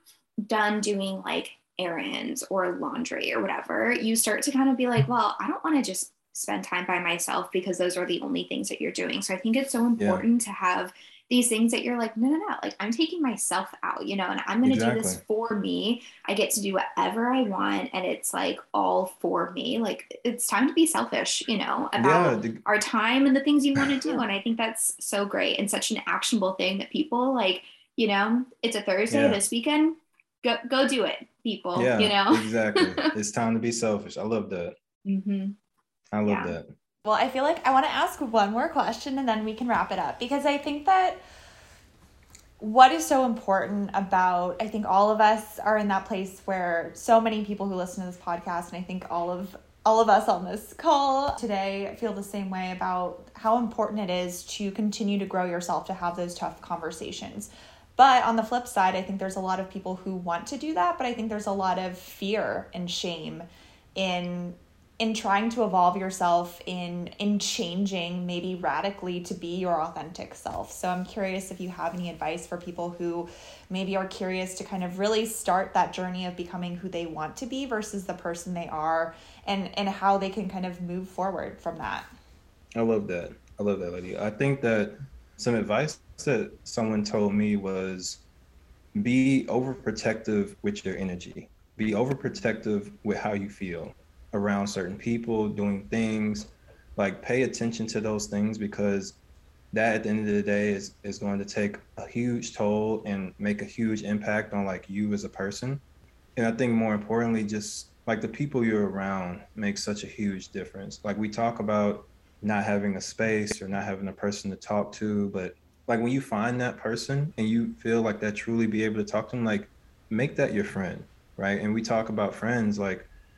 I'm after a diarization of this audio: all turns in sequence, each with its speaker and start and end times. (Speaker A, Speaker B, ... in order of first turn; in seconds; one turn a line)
Speaker A: 0.4-33.1
Speaker B: 10.0-10.2
Speaker B: 14.6-15.2
Speaker B: 22.0-22.6
Speaker B: 29.1-29.4
Speaker B: 31.7-34.8
Speaker A: 35.0-35.5
Speaker B: 36.1-36.7
Speaker A: 36.2-36.6
Speaker C: 37.0-41.2
Speaker C: 42.6-82.1
Speaker B: 82.7-88.2
Speaker B: 88.9-99.2
Speaker B: 99.7-105.8
Speaker B: 106.3-123.1